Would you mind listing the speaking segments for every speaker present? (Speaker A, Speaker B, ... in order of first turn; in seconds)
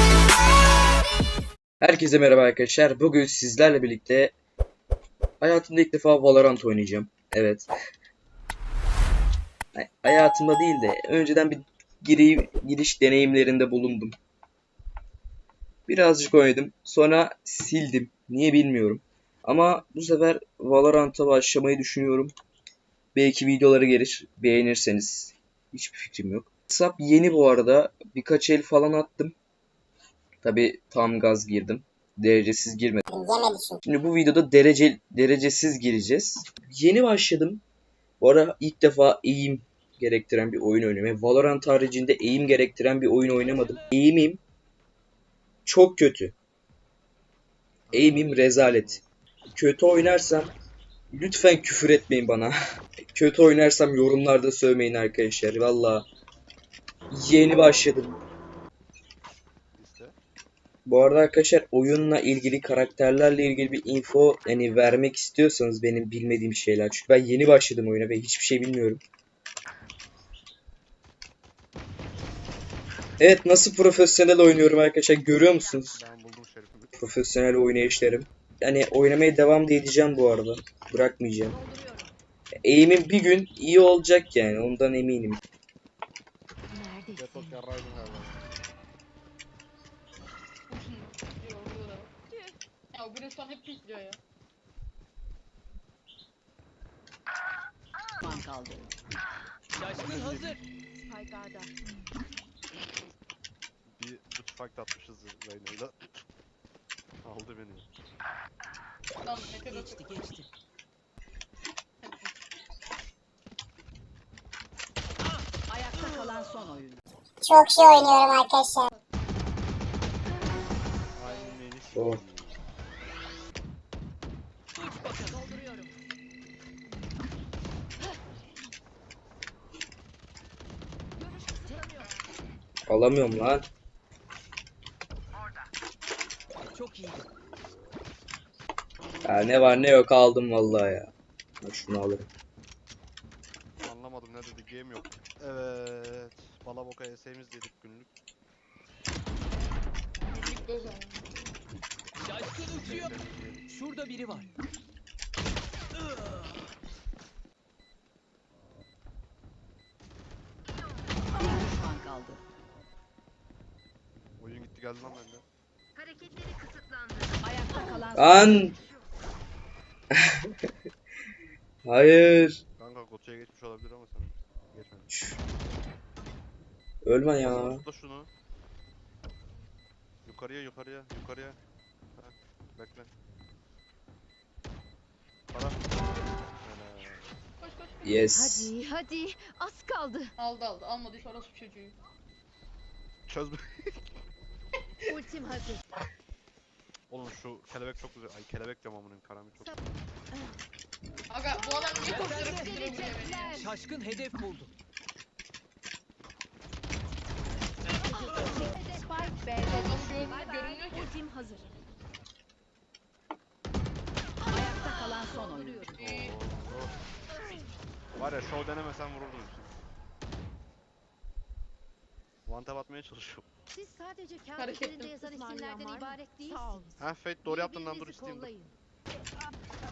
Speaker A: 1.8-4.3, 5.4-7.7, 9.8-14.2, 15.9-22.3, 23.1-29.4, 30.4-33.0, 33.9-37.6, 38.2-44.4, 45.7-46.3, 47.9-49.0, 49.5-50.5, 51.1-52.6, 53.1-56.1, 57.1-58.2, 60.9-69.0, 73.2-76.0, 76.9-81.5, 82.6-85.4, 121.9-122.2, 132.9-133.7, 139.2-141.1, 141.6-142.3, 168.2-168.8, 170.1-170.7, 171.8-172.6, 175.1-175.4, 177.1-177.8, 188.0-188.7
Speaker B: 33.1-33.8, 117.4-118.9
Speaker C: 43.4-44.0, 99.7-100.6, 109.7-110.5, 124.9-125.4, 136.7-137.2, 152.2-153.2, 153.7-154.5, 202.0-202.8, 203.5-204.7, 225.4-226.8
Speaker D: 47.9-49.0, 59.8-60.2, 76.0-77.0, 87.2-88.5, 104.0-106.2, 107.2-107.9, 117.6-118.1, 121.1-122.6, 143.8-148.1, 152.7-153.7, 164.4-165.4, 172.8-175.1, 177.4-178.3, 180.2-181.6, 182.2-183.1, 185.5-187.4, 193.3-194.0, 197.1-199.8, 216.0-217.0, 218.1-219.7, 222.5-223.5, 227.0-228.6
Speaker E: 81.5-82.1, 98.2-98.9, 115.7-117.0, 125.3-125.9, 131.2-132.1, 161.3-162.4, 167.4-168.7, 202.3-203.2, 208.1-210.2, 214.5-216.0, 226.4-226.8
Speaker F: 86.7-87.5, 101.0-101.7, 166.0-167.4, 168.7-169.0, 188.3-190.3, 195.1-195.8, 202.6-203.7, 208.2-208.6, 210.7-211.7, 223.7-228.7
Speaker G: 90.7-92.1, 92.9-94.2, 109.2-110.1, 112.0-112.3, 121.3-121.5, 150.2-151.2, 187.6-188.3, 190.4-192.0, 201.3-203.7, 209.6-211.1, 215.9-216.3, 224.6-225.4